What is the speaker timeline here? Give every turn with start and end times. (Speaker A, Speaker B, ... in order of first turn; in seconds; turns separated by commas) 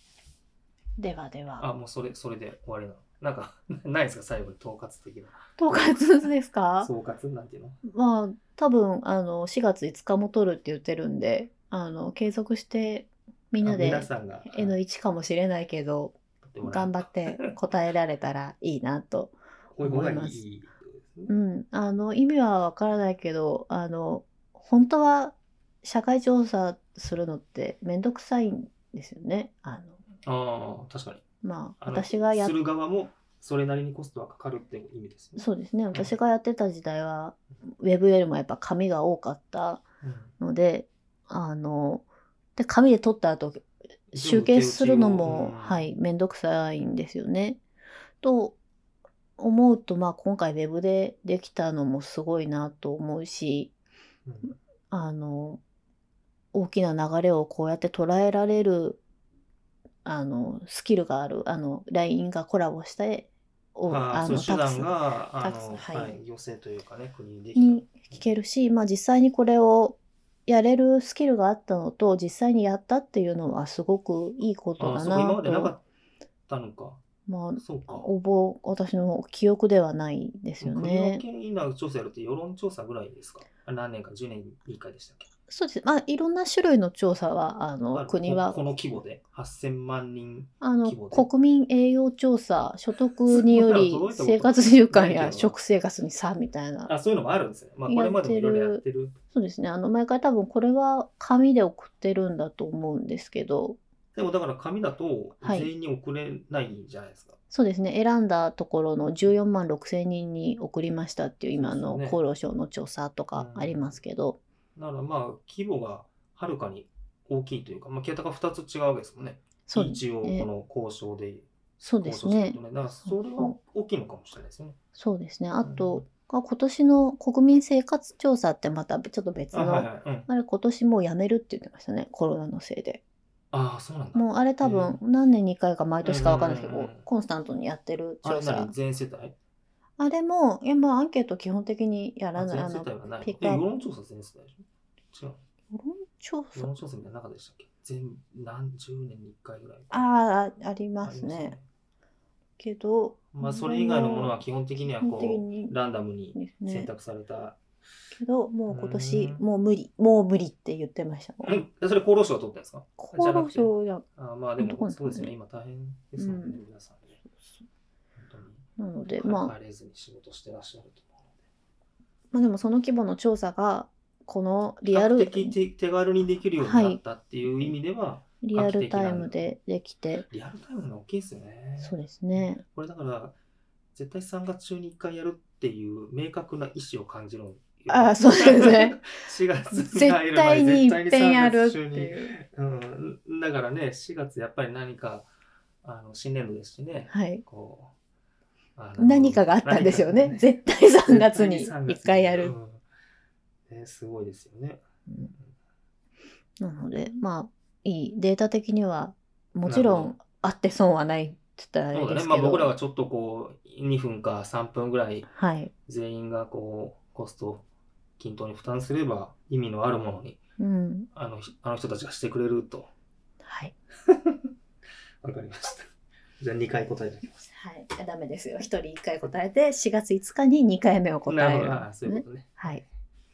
Speaker A: 1.0-1.6, Speaker B: 1.6-6.0, Speaker A: 5.6-6.9, Speaker B: 6.8-7.8, Speaker A: 7.8-20.4, Speaker B: 13.6-14.8, Speaker B: 16.4-17.5, Speaker B: 19.7-21.3, Speaker A: 21.3-30.0, Speaker B: 30.2-31.2, Speaker A: 31.4-32.5, Speaker B: 31.8-36.1, Speaker A: 35.4-39.8, Speaker B: 40.0-40.3, Speaker A: 40.4-42.0, Speaker A: 42.5-47.6, Speaker B: 44.1-45.9, Speaker A: 48.2-48.5, Speaker A: 49.4-53.7, Speaker B: 54.2-54.5, Speaker A: 54.9-55.6, Speaker A: 56.5-59.0, Speaker A: 60.0-66.2, Speaker B: 63.9-68.3, Speaker A: 67.5-75.7, Speaker B: 74.8-75.8, Speaker B: 76.5-77.0, Speaker A: 77.3-81.2, Speaker B: 77.6-78.1, Speaker B: 80.6-85.3, Speaker A: 85.5-88.6, Speaker B: 87.9-91.3, Speaker A: 90.6-96.9, Speaker B: 93.3-95.6, Speaker B: 96.8-99.1, Speaker A: 97.9-103.8, Speaker B: 104.1-107.3, Speaker A: 105.4-105.7, Speaker A: 107.5-114.4, Speaker B: 111.5-112.2, Speaker B: 113.3-114.0, Speaker B: 114.8-121.5, Speaker A: 119.7-120.5, Speaker A: 121.8-123.5, Speaker B: 122.0-124.8, Speaker A: 124.9-133.0, Speaker B: 125.6-126.0, Speaker B: 129.5-130.3, Speaker B: 133.5-135.0, Speaker A: 134.1-138.7, Speaker B: 136.0-137.1, Speaker B: 138.2-139.3, Speaker A: 140.0-143.6, Speaker B: 142.3-145.4, Speaker A: 145.7-146.8, Speaker B: 146.5-150.0, Speaker A: 149.9-151.6, Speaker B: 151.0-151.6, Speaker A: 152.6-155.7, Speaker B: 153.3-157.6, Speaker A: 156.3-156.9, Speaker A: 158.1-161.6, Speaker B: 158.7-159.4, Speaker B: 161.4-167.2, Speaker A: 163.0-164.0, Speaker A: 164.6-165.3, Speaker A: 166.2-166.6, Speaker B: 168.2-168.6, Speaker A: 168.8-169.5, Speaker B: 169.2-171.3, Speaker A: 172.3-175.6, Speaker B: 174.8-179.5, Speaker A: 176.6-177.0, Speaker A: 178.4-180.2, Speaker B: 180.3-183.3, Speaker A: 181.8-182.6, Speaker B: 183.9-195.3, Speaker A: 187.9-189.1, Speaker A: 189.7-192.3, Speaker B: 195.8-197.9, Speaker A: 197.1-197.4, Speaker B: 198.8-200.5, Speaker A: 199.0-202.5, Speaker B: 201.1-202.8, Speaker B: 203.7-205.5, Speaker A: 205.1-205.3, Speaker A: 206.6-212.7, Speaker B: 209.7-210.1, Speaker B: 211.9-215.3, Speaker A: 215.3-215.7, Speaker B: 215.8-217.6, Speaker B: 218.2-220.4, Speaker A: 220.6-221.1, Speaker B: 221.1-222.9, Speaker A: 223.4-223.7, Speaker B: 224.1-224.5, Speaker B: 225.2-227.5, Speaker A: 227.5-232.8, Speaker B: 231.3-232.8